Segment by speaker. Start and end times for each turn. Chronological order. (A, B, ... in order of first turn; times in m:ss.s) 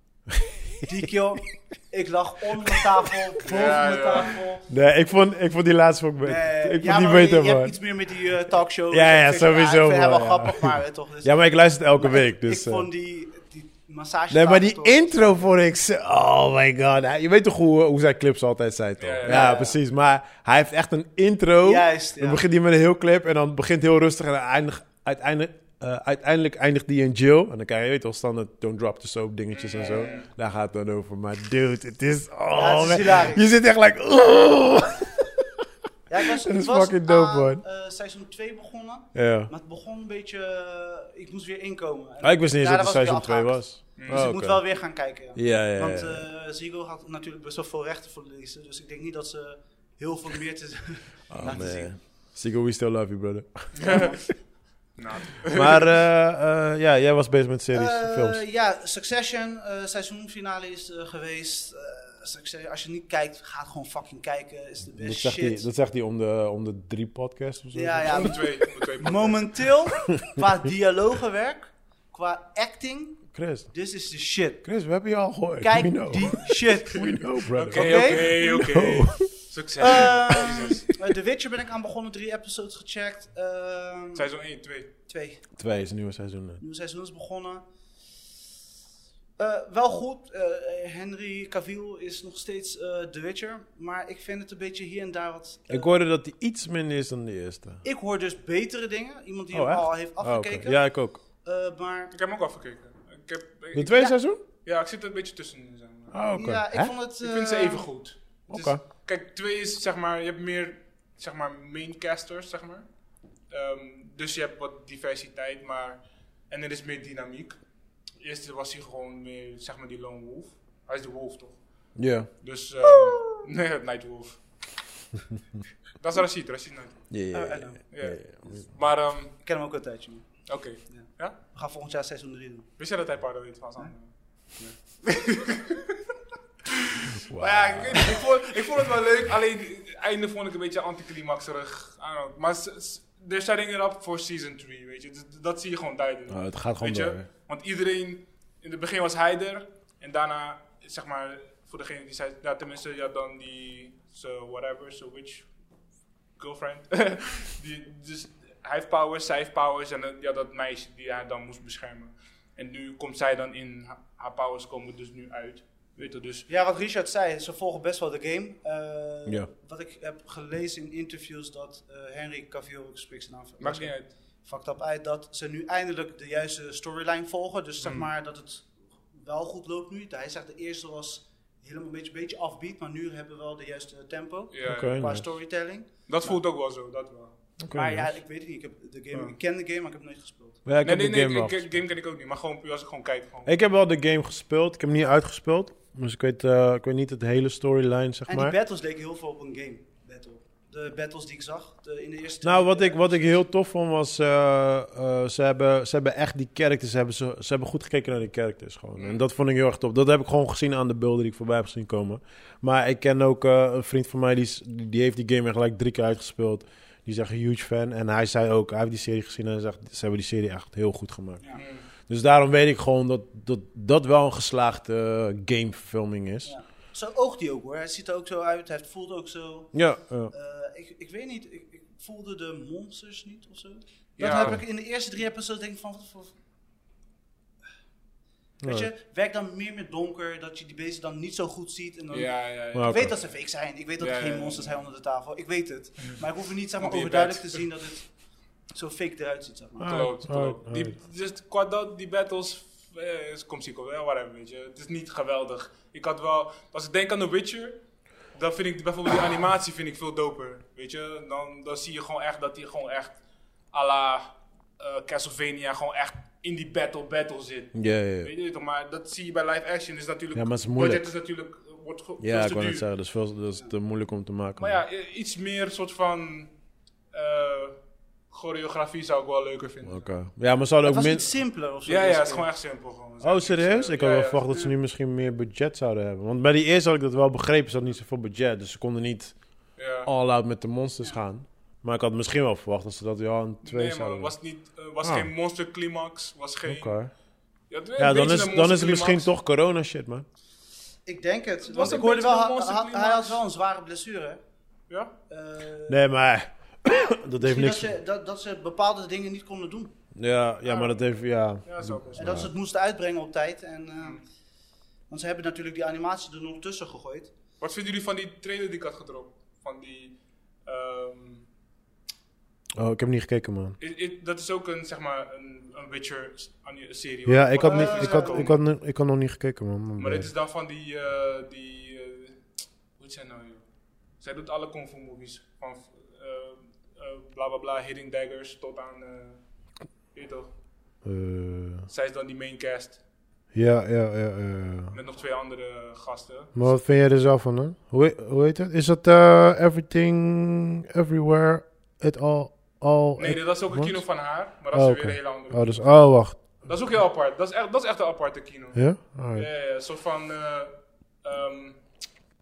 0:00.8-0:04.7 A
0:03.4-0:04.4 B
0:04.7-0:07.7 C
0:06.2-0:11.4 A
0:08.9-0:12.9 C
0:12.0-0:15.5 A
0:14.3-0:35.3 C
0:19.0-0:19.5 B
0:19.2-0:19.8 A
0:21.6-0:22.4 A
0:29.5-0:30.3 B
0:29.8-0:30.2 A
0:32.5-0:33.4 A
0:36.1-0:51.9 A
0:36.2-0:37.6 C
0:39.1-0:39.5 C
0:42.2-0:44.6 C
0:44.0-0:44.3 B
0:45.3-0:46.2 C
0:51.3-0:54.2 C
0:53.7-0:54.2 B
0:53.8-0:54.2 A
0:55.0-0:55.9 B
0:55.5-0:58.4 C
0:57.7-1:05.7 A
1:05.0-1:08.5 C
1:07.7-1:14.6 A
1:08.1-1:09.6 B
1:13.3-1:13.7 C
1:14.6-1:19.3 C
1:15.6-1:18.5 A
1:16.9-1:21.0 B
1:19.8-1:24.3 A
1:24.1-1:24.9 B
1:25.1-1:25.4 A
1:25.6-1:26.6 C
1:26.6-1:27.6 A
1:29.4-1:35.9 A
1:35.7-1:37.8 C
1:37.8-1:40.8 A
1:39.5-1:41.2 C
1:41.4-1:42.1 A
1:42.1-1:46.4 B
1:43.7-1:44.4 C
1:46.1-1:46.9 C
1:46.3-1:47.9 A
1:47.2-1:52.9 B
1:48.5-1:48.8 C
1:53.5-1:57.6 B
1:58.2-2:01.9 B
2:02.0-2:02.3 C
2:02.4-2:04.4 B
2:06.0-2:07.1 B
2:07.1-2:08.7 C
2:07.3-2:07.8 A
2:07.9-2:09.3 B
2:09.4-2:10.3 A
2:10.5-2:11.4 B
2:10.9-2:12.7 A
2:12.8-2:16.0 B
2:16.7-2:35.5 B
2:17.2-2:18.2 C
2:26.3-2:27.2 C
2:36.4-2:46.5 B
2:46.5-3:06.4 A
2:53.6-2:54.1 B
2:57.8-2:58.1 B
3:04.5-3:05.0 B
3:04.6-3:05.2 C
3:06.1-3:07.4 B
3:07.6-3:08.1 C
3:07.7-3:10.6 A
3:10.6-3:11.7 C
3:10.8-3:13.5 B
3:13.4-3:18.6 C
3:18.3-3:23.4 A
3:22.4-3:41.4 C
3:29.0-3:29.2 B
3:41.5-3:41.8 B
3:42.0-3:46.5 C
3:46.4-3:56.3 A
3:49.7-3:50.3 C
3:54.2-3:54.6 B
3:54.2-3:54.6 C
3:58.6-3:58.9 C
3:58.6-4:08.1 A
4:02.1-4:03.2 B
4:02.7-4:03.1 C
4:04.0-4:04.8 B
4:06.8-4:07.6 B
4:08.7-4:10.0 A
4:09.8-4:11.0 C
4:09.8-4:23.2 B
4:23.7-4:32.8 B
4:27.7-4:28.3 C
4:30.3-4:31.0 C
4:32.2-4:34.8 C
4:34.6-4:36.5 B
4:37.1-4:37.8 B
4:38.3-4:40.1 B
4:39.8-4:41.3 C
4:40.8-4:42.4 A
4:41.8-4:44.7 B
4:43.2-4:54.3 C
4:49.8-4:50.1 B
4:53.6-4:57.0 B
4:55.0-4:55.3 C
4:56.6-4:57.1 C
4:57.7-4:59.3 B
4:58.0-5:00.2 C
5:01.0-5:04.4 A
5:01.6-5:03.4 B
5:05.3-5:06.0 A
5:05.9-5:07.9 C
5:07.4-5:09.9 A
5:10.1-5:12.5 C
5:11.6-5:12.4 B
5:12.1-5:14.2 A
5:15.1-5:17.3 A
5:17.6-5:21.4 B
5:22.8-5:23.8 C
5:23.8-5:28.6 B
5:27.3-5:30.3 C
5:27.6-5:28.6 A
5:30.0-5:40.5 B
5:41.0-5:41.9 C
5:41.9-5:43.0 B
5:43.5-5:45.0 C
5:44.9-5:46.7 B
5:46.6-5:54.1 C
5:53.2-6:02.0 B
5:54.7-5:56.5 C
5:58.7-5:59.5 C